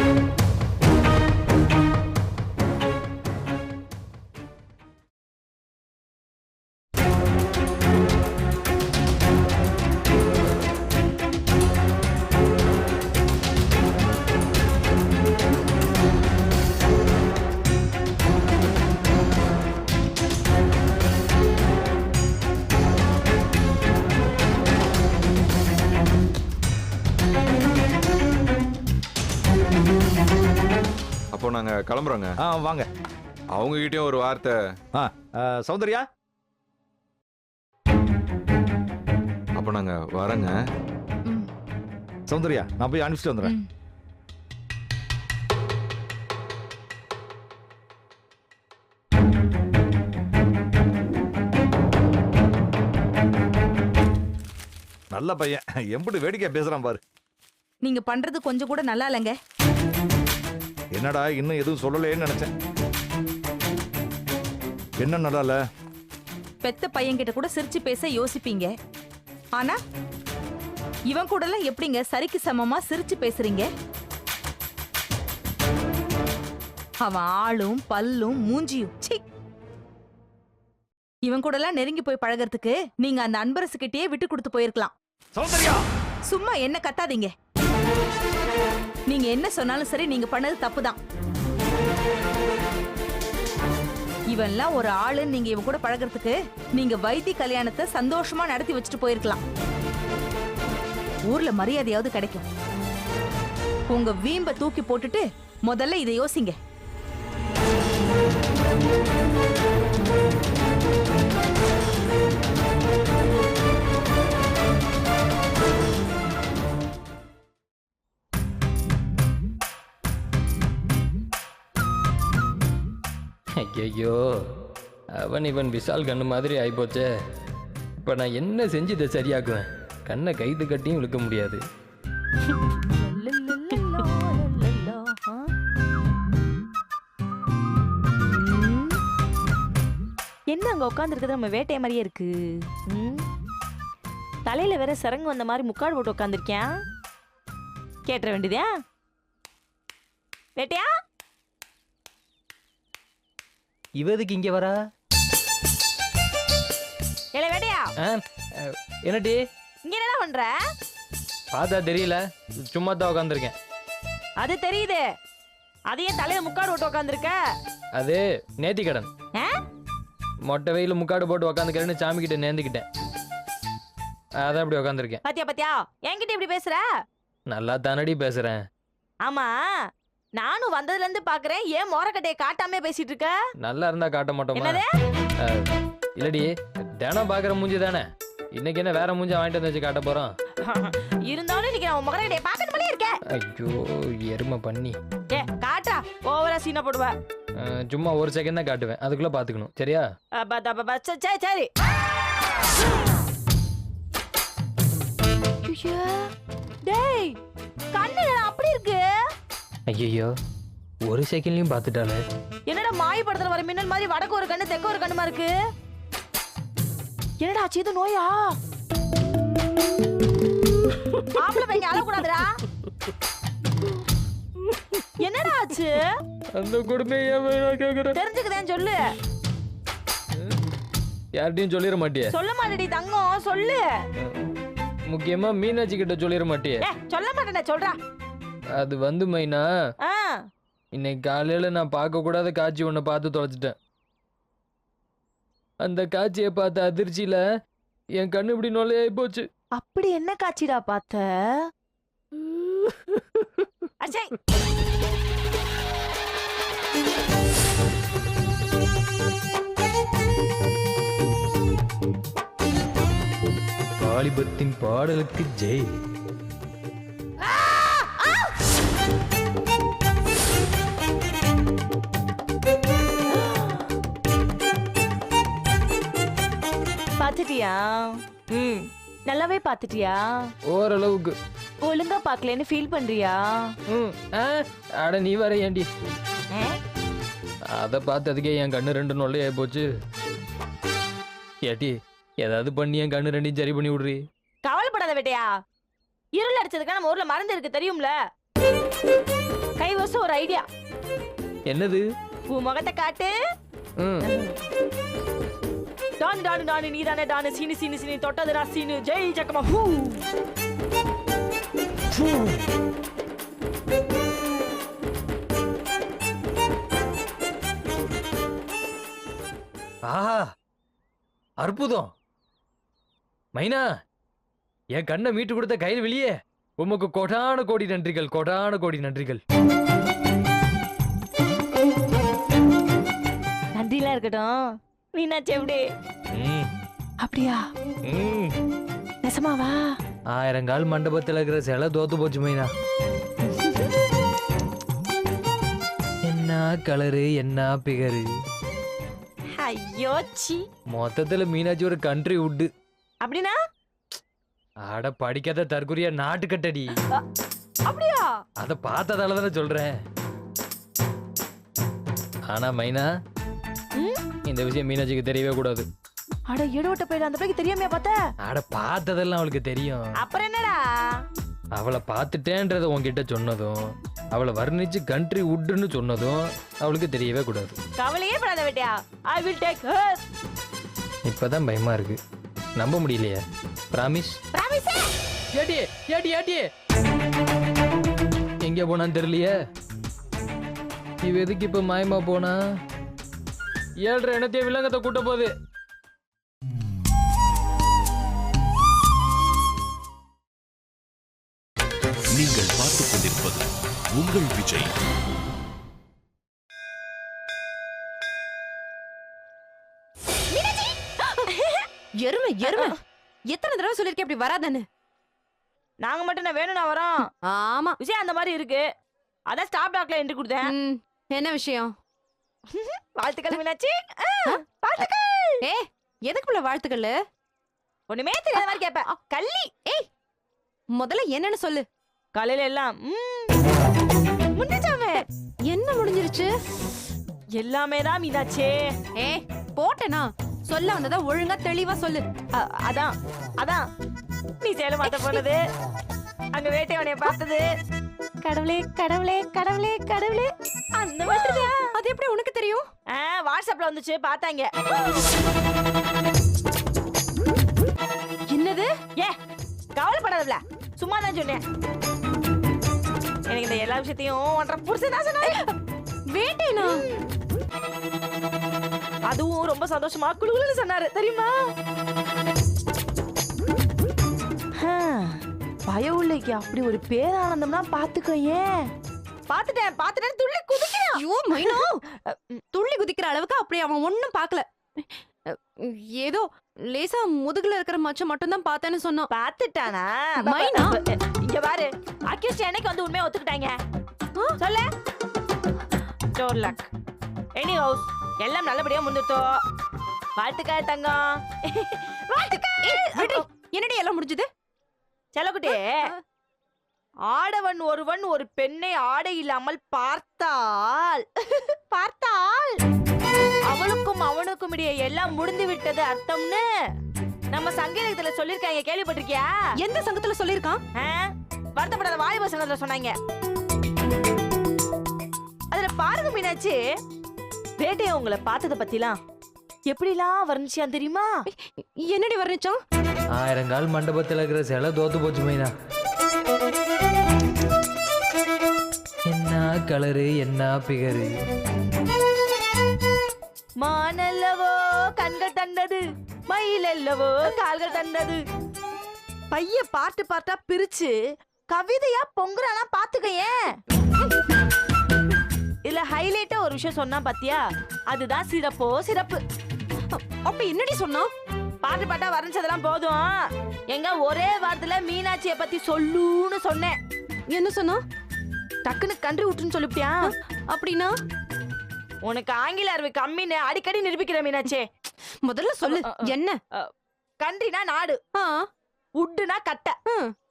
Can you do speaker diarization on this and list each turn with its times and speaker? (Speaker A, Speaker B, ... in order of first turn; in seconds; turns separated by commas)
Speaker A: 31.3-32.3, Speaker B: 32.4-32.9, Speaker A: 33.5-34.6, Speaker B: 34.9-36.1, Speaker A: 39.6-40.6, Speaker B: 42.3-43.5, Speaker C: 43.4-43.7, Speaker B: 55.1-57.0, Speaker C: 57.8-59.4, Speaker B: 60.9-62.5, Speaker B: 65.0-65.6, Speaker C: 66.6-68.7, Speaker C: 71.1-73.7, Speaker C: 77.0-79.2, Speaker C: 81.2-84.9, Speaker B: 85.3-85.8, Speaker C: 86.3-87.3, Speaker C: 89.1-91.0, Speaker C: 94.3-99.4, Speaker C: 101.3-102.5, Speaker C: 103.9-106.5, Speaker D: 123.6-124.5, Speaker D: 125.2-127.1, Speaker D: 128.0-131.6, Speaker E: 132.9-135.5, Speaker E: 138.3-139.0, Speaker E: 140.5-142.3, Speaker E: 142.9-143.2, Speaker E: 144.5-146.7, Speaker E: 148.1-148.7, Speaker E: 150.6-150.9, Speaker D: 154.0-154.8, Speaker E: 157.3-157.9, Speaker D: 158.0-159.4, Speaker E: 159.9-160.5, Speaker D: 161.5-163.5, Speaker E: 164.4-165.0, Speaker E: 165.9-167.4, Speaker D: 168.0-169.1, Speaker D: 170.5-172.8, Speaker D: 174.4-175.2, Speaker E: 175.2-176.8, Speaker D: 177.5-178.6, Speaker E: 179.2-179.5, Speaker E: 180.4-183.4, Speaker D: 183.6-184.8, Speaker E: 184.6-184.9, Speaker D: 185.4-190.3, Speaker E: 190.6-193.2, Speaker D: 193.3-195.0, Speaker E: 195.3-197.1, Speaker D: 197.6-200.1, Speaker E: 200.4-201.7, Speaker E: 205.6-206.3, Speaker E: 206.8-207.4, Speaker E: 207.9-209.0, Speaker D: 209.9-210.3, Speaker D: 211.1-212.2, Speaker E: 212.7-215.5, Speaker E: 217.4-218.5, Speaker E: 221.3-222.6, Speaker F: 221.5-222.3, Speaker E: 225.2-226.1, Speaker D: 226.6-228.2, Speaker E: 228.1-229.0, Speaker D: 231.3-232.3, Speaker E: 232.3-233.8, Speaker D: 234.2-234.5, Speaker D: 235.1-236.8, Speaker E: 236.8-237.9, Speaker D: 238.8-239.6, Speaker E: 240.0-240.4, Speaker D: 240.9-243.7, Speaker D: 245.8-247.4, Speaker D: 248.2-249.4, Speaker E: 249.8-251.3, Speaker E: 254.0-254.3, Speaker D: 264.0-265.9, Speaker E: 273.4-273.7, Speaker E: 277.2-280.5, Speaker D: 280.7-281.3, Speaker E: 281.8-283.8, Speaker D: 283.9-285.9, Speaker E: 286.5-286.8, Speaker D: 287.7-289.9, Speaker D: 291.6-294.2, Speaker E: 294.6-295.5, Speaker E: 296.4-298.1, Speaker E: 299.8-300.6, Speaker D: 301.7-302.0, Speaker E: 302.5-303.3, Speaker D: 304.0-304.3, Speaker E: 304.2-304.6, Speaker E: 306.2-310.2, Speaker D: 312.1-312.6, Speaker D: 320.1-320.5, Speaker D: 321.6-322.1, Speaker D: 323.6-323.8, Speaker D: 325.0-329.4, Speaker E: 333.8-335.8, Speaker D: 336.4-336.7, Speaker E: 337.2-337.6, Speaker D: 338.1-338.6, Speaker E: 339.2-339.9, Speaker D: 340.3-342.7, Speaker E: 343.5-343.9, Speaker D: 346.2-348.2, Speaker E: 349.5-350.6, Speaker D: 350.9-352.7, Speaker E: 353.2-353.6, Speaker D: 354.9-356.9, Speaker E: 357.9-358.2, Speaker D: 358.6-359.9, Speaker D: 362.5-363.1, Speaker D: 364.5-365.9, Speaker E: 366.5-368.1, Speaker D: 368.4-370.1, Speaker E: 370.2-370.8, Speaker D: 371.8-373.8, Speaker D: 374.3-377.8, Speaker E: 378.0-380.2, Speaker D: 381.3-382.2, Speaker D: 382.8-383.4, Speaker D: 383.9-384.4, Speaker E: 384.5-385.1, Speaker D: 385.5-386.7, Speaker D: 388.6-389.5, Speaker D: 391.2-392.6, Speaker D: 394.1-395.5, Speaker G: 402.3-404.9, Speaker F: 410.5-411.5, Speaker E: 411.5-411.8, Speaker F: 412.2-413.0, Speaker E: 412.6-412.9, Speaker F: 413.5-414.8, Speaker E: 416.0-417.2, Speaker F: 417.4-418.0, Speaker E: 418.0-418.8, Speaker E: 419.5-420.7, Speaker F: 420.6-421.9, Speaker E: 422.7-425.6, Speaker F: 424.4-425.0, Speaker F: 425.6-427.1, Speaker E: 428.1-429.6, Speaker F: 428.5-429.2, Speaker F: 431.0-431.8, Speaker E: 432.3-433.6, Speaker E: 434.6-435.2, Speaker F: 435.7-436.5, Speaker E: 437.6-438.8, Speaker F: 439.2-442.2, Speaker E: 442.6-443.8, Speaker E: 444.6-445.6, Speaker F: 445.0-445.4, Speaker E: 446.6-447.6, Speaker E: 448.4-451.8, Speaker F: 451.2-452.9, Speaker E: 453.1-455.2, Speaker F: 458.5-458.9, Speaker E: 460.0-461.6, Speaker E: 463.5-465.6, Speaker F: 465.4-465.7, Speaker F: 466.3-467.0, Speaker E: 466.8-467.2, Speaker E: 469.3-471.5, Speaker E: 474.8-478.8, Speaker E: 479.5-482.4, Speaker F: 481.1-482.0, Speaker F: 482.7-485.0, Speaker F: 485.8-489.3, Speaker E: 489.3-493.8, Speaker F: 490.4-491.0, Speaker E: 494.6-494.9, Speaker E: 496.3-496.9, Speaker E: 497.6-499.5, Speaker E: 500.4-503.4, Speaker F: 502.5-504.5, Speaker E: 505.4-506.1, Speaker F: 505.7-506.2, Speaker E: 507.3-512.7, Speaker E: 513.7-516.6, Speaker E: 517.5-519.5, Speaker F: 519.8-520.8, Speaker E: 521.0-523.1, Speaker E: 525.7-526.8, Speaker E: 527.8-529.2, Speaker E: 529.9-531.3, Speaker F: 531.5-532.8, Speaker D: 533.4-535.7, Speaker D: 539.3-541.3, Speaker E: 543.8-548.4, Speaker E: 549.5-551.1, Speaker E: 551.7-553.6, Speaker E: 555.9-559.4, Speaker F: 560.1-561.3, Speaker E: 561.8-563.3, Speaker E: 563.9-567.0, Speaker F: 567.5-568.0, Speaker E: 568.8-570.3, Speaker F: 570.2-571.1, Speaker E: 572.2-574.9, Speaker F: 575.4-576.6, Speaker E: 575.8-576.2, Speaker E: 577.4-578.2, Speaker F: 578.4-578.7, Speaker E: 579.2-580.0, Speaker F: 580.1-580.3